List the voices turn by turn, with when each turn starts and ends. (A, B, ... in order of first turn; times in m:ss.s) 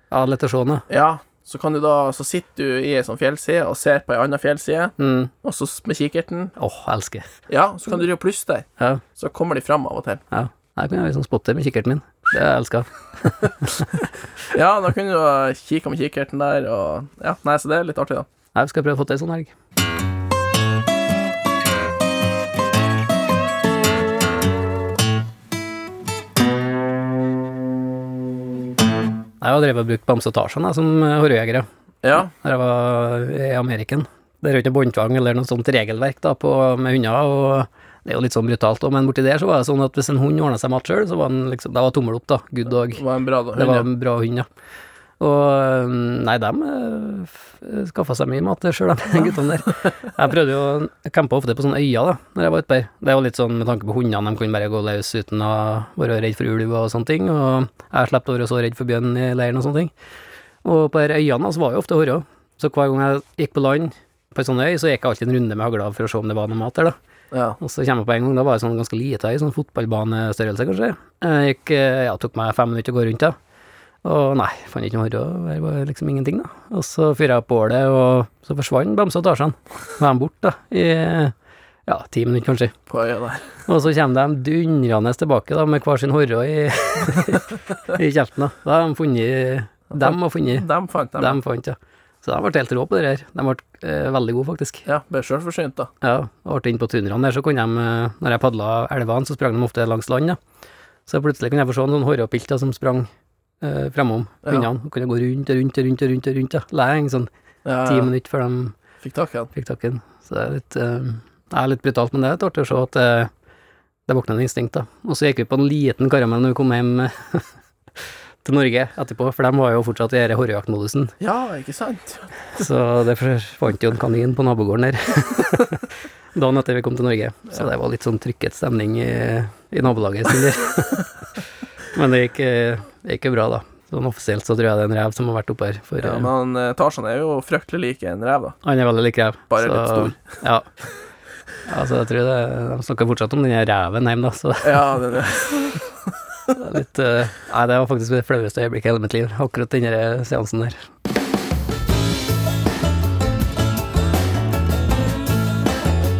0:00.1-0:00.8 A
0:00.9-0:06.5 B
0:05.0-0:05.3 A
0:06.6-0:07.2 A
0:07.5-0:08.7 B
0:08.8-0:09.0 A
0:09.2-0:10.2 B
0:10.3-0:13.9 A
0:14.5-0:18.3 B
0:18.5-0:19.5 A
0:29.4-0:43.0 A
0:32.0-0:32.3 B
0:42.8-0:43.9 B
0:43.6-0:44.5 A
0:45.2-0:59.9 A
1:00.6-1:07.0 A
1:07.3-1:07.6 B
1:07.6-1:13.4 A
1:14.0-1:21.3 A
1:21.9-1:22.8 A
1:22.9-1:23.5 B
1:23.7-1:34.9 A
1:29.9-1:31.4 B
1:34.9-1:35.9 B
1:36.0-1:40.4 A
1:41.1-1:43.1 A
1:43.6-1:47.3 A
1:47.6-1:48.1 B
1:47.8-1:48.8 A
1:49.0-1:49.5 B
1:49.5-1:53.3 A
1:54.1-1:57.5 A
1:58.4-2:01.1 A
2:01.2-2:02.3 B
2:02.5-2:11.1 A
2:11.9-2:16.3 A
2:16.0-2:18.6 B
2:18.6-2:20.7 A
2:19.5-2:20.2 B
2:21.7-2:24.9 A
2:24.6-2:25.9 B
2:26.5-2:30.8 A